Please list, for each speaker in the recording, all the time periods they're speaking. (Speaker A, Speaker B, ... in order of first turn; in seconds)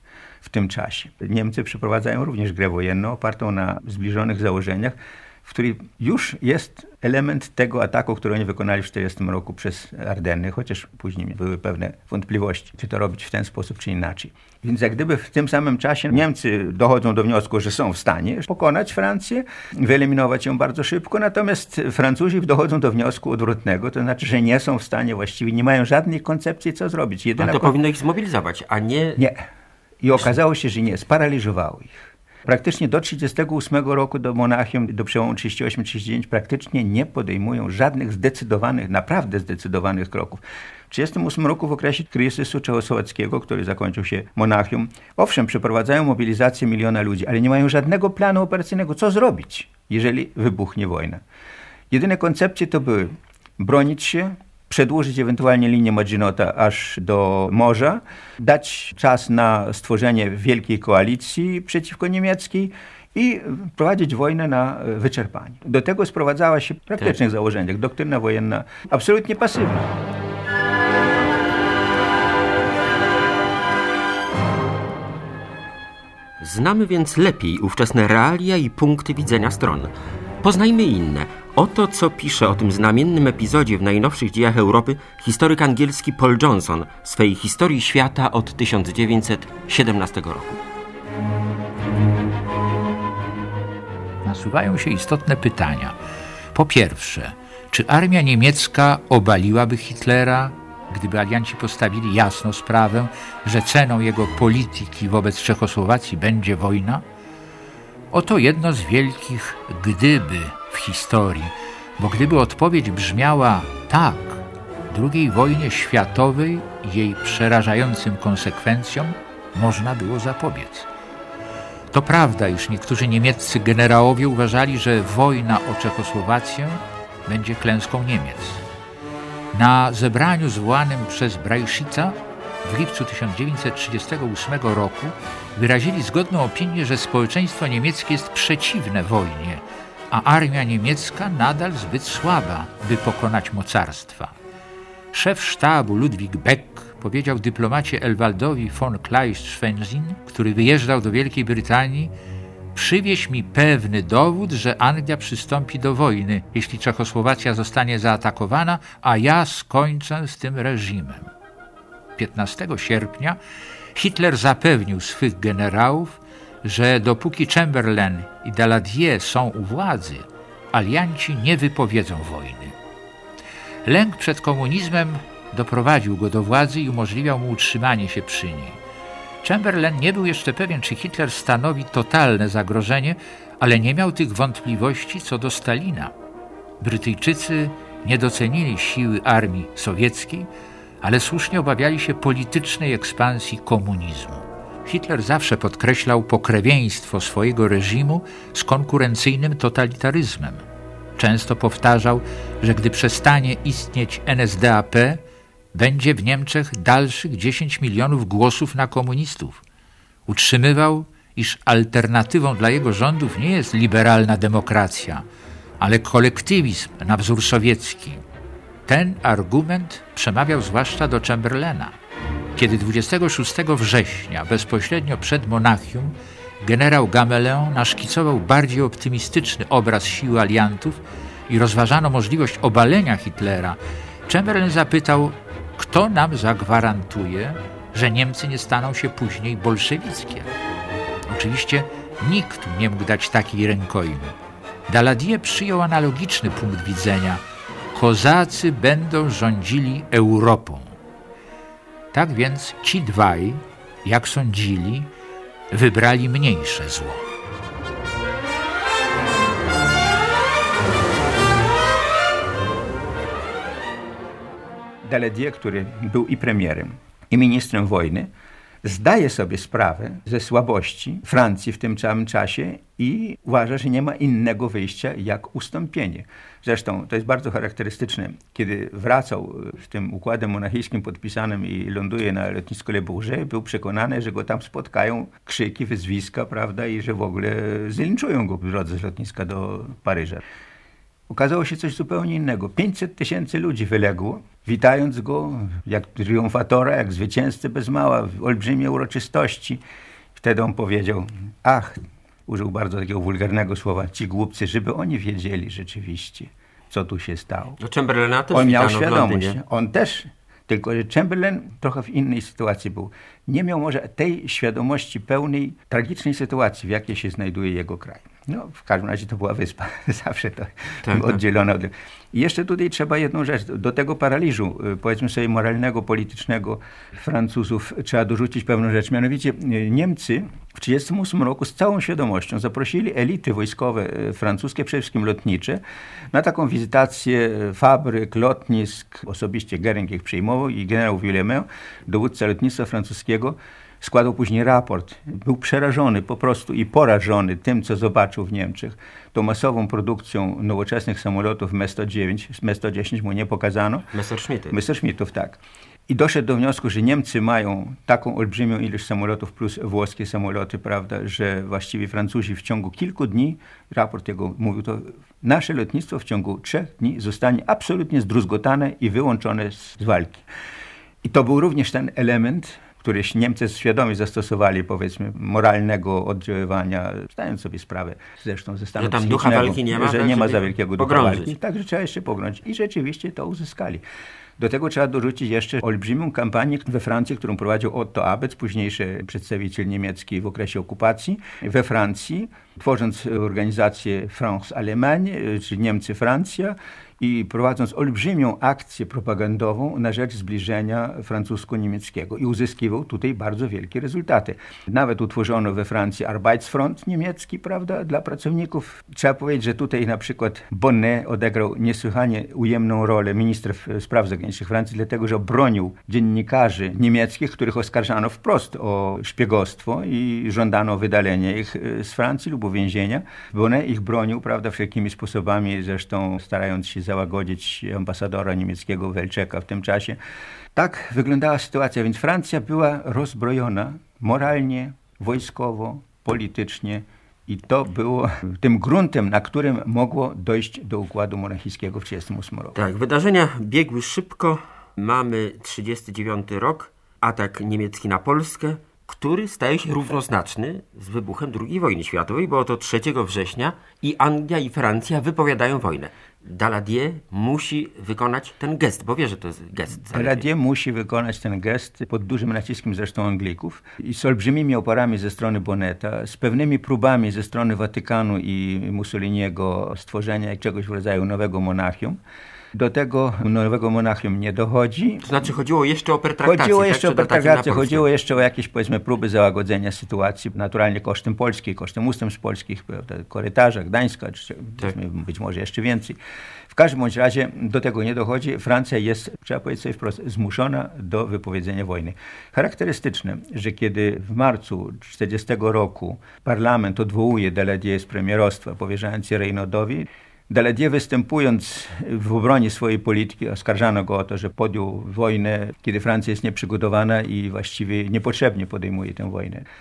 Speaker A: 0.4-27.8, 30.0-51.2, 51.9-70.0, 265.0-268.3, 268.8-290.4, 291.3-299.8, 300.4-307.8, 308.5-335.8, 336.3-354.1, 354.7-370.4, 371.2-384.0, 384.6-430.2, 430.8-442.8, 460.1-472.2, 472.7-475.3, 476.4-486.2, 486.7-509.6
Speaker B: 27.4-29.2, 76.4-90.6, 307.8-309.6, 321.1-321.4, 354.1-354.8, 379.0-381.5, 442.8-460.5, 475.2-478.1
Speaker C: 94.2-96.0, 96.5-107.0, 108.1-120.9, 121.9-128.6, 129.5-144.3, 145.1-152.1, 152.7-161.3, 162.2-163.4, 163.9-172.8, 173.8-178.8, 179.4-186.1, 186.8-190.5, 191.0-200.7, 201.2-205.2, 205.7-209.6, 210.3-215.2, 215.8-218.2, 218.9-221.9, 222.6-240.5, 241.3-244.3, 244.9-247.4, 247.9-251.0, 252.1-255.1, 255.7-257.3